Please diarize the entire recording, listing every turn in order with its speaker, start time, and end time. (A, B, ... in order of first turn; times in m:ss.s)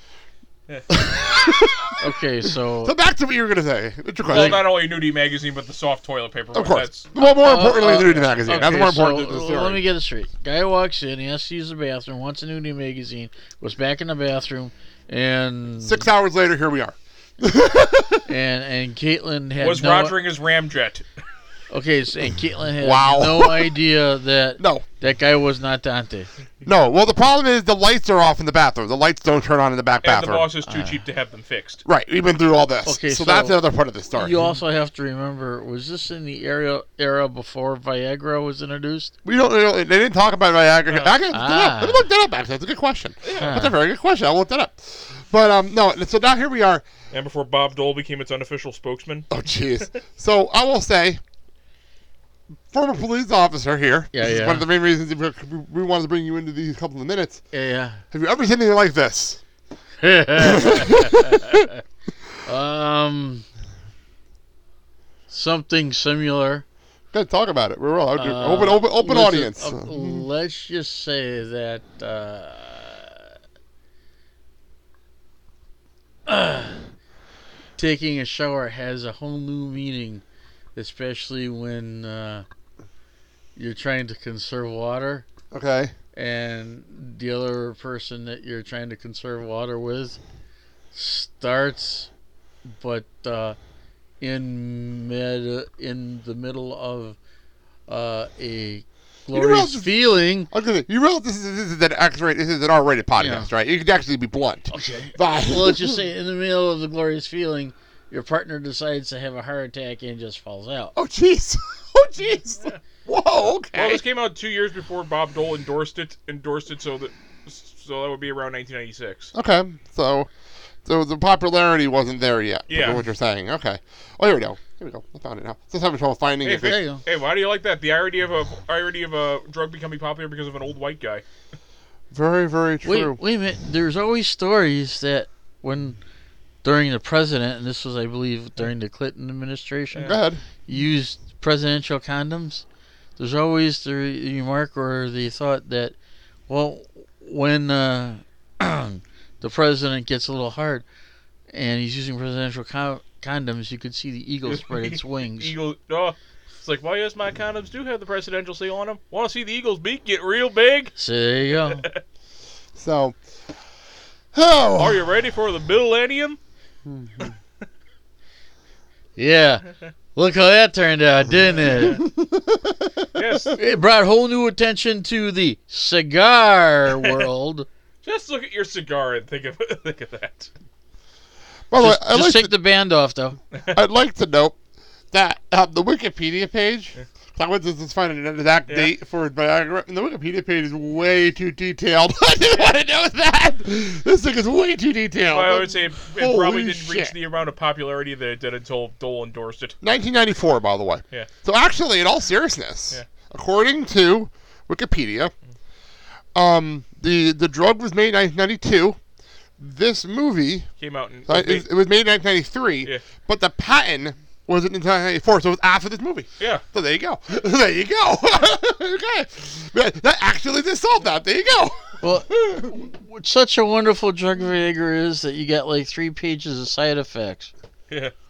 0:00.9-0:01.9 A
0:02.0-0:02.9 B
0:02.8-0:04.7 A
0:04.3-0:07.1 C
0:04.3-0:04.6 B
0:06.5-0:09.8 A
0:07.2-0:16.1 B
0:08.0-0:08.8 C
0:15.8-0:18.3 A
0:18.2-0:20.2 B
0:19.6-0:21.0 C
0:21.7-0:26.3 B
0:22.8-0:23.8 A
0:24.6-0:24.8 A
0:26.6-0:30.5 A
0:30.0-0:31.8 C
0:30.7-0:31.0 B
0:31.8-0:34.5 A
0:32.8-0:39.1 B
0:39.2-0:46.8 A
0:40.9-0:41.2 C
0:41.3-0:42.0 B
0:43.2-0:43.6 C
0:43.3-0:43.8 B
0:47.1-0:49.3 C
0:49.3-0:51.2 A
0:52.7-0:57.4 A
0:54.1-0:54.6 B
0:57.5-0:58.0 B
0:58.1-0:59.4 A
1:00.0-1:01.7 B
1:00.4-1:01.6 A
1:02.4-1:03.4 B
1:05.3-1:06.6 B
1:07.1-1:10.3 A
1:08.1-1:13.3 B
1:16.3-1:16.8 B
1:17.8-1:20.2 B
1:20.7-1:22.4 B
1:23.6-1:25.2 B
1:25.5-1:25.9 A
1:26.1-1:30.2 B
1:30.9-1:32.1 B
1:32.7-1:33.6 B
1:34.2-1:37.2 B
1:37.9-1:40.5 B
1:39.3-1:40.0 A
1:40.5-1:46.0 A
1:43.2-1:43.5 B
1:44.7-1:50.9 B
1:50.9-1:54.0 A
1:53.7-1:59.3 C
1:59.3-2:00.3 A
2:00.8-2:06.8 A
2:02.7-2:03.0 C
2:06.4-2:11.2 C
2:06.6-2:07.0 B
2:12.1-2:13.2 A
2:12.8-2:16.0 B
2:16.6-2:22.6 B
2:19.9-2:20.2 C
2:20.0-2:20.4 A
2:23.2-2:26.0 B
2:26.5-2:30.8 B
2:31.5-2:35.6 B
2:34.5-2:40.9 C
2:41.0-2:41.8 B
2:42.8-2:43.2 A
2:44.3-2:45.0 A
2:44.8-2:46.4 C
2:46.8-2:47.3 A
2:49.2-2:52.0 B
2:51.6-2:52.0 C
2:51.8-2:53.1 A
2:53.1-2:53.6 C
2:53.6-2:57.7 B
2:57.0-2:57.3 C
2:58.0-3:00.5 C
3:01.7-3:02.5 A
3:01.8-3:03.4 B
3:03.7-3:04.6 A
3:05.1-3:17.1 A
3:15.3-3:19.8 C
3:19.8-3:25.3 A
3:26.3-3:29.0 A
3:29.6-3:30.7 A
3:30.8-3:31.6 C
3:31.3-3:42.6 A
3:36.4-3:36.6 C
3:42.0-3:47.5 B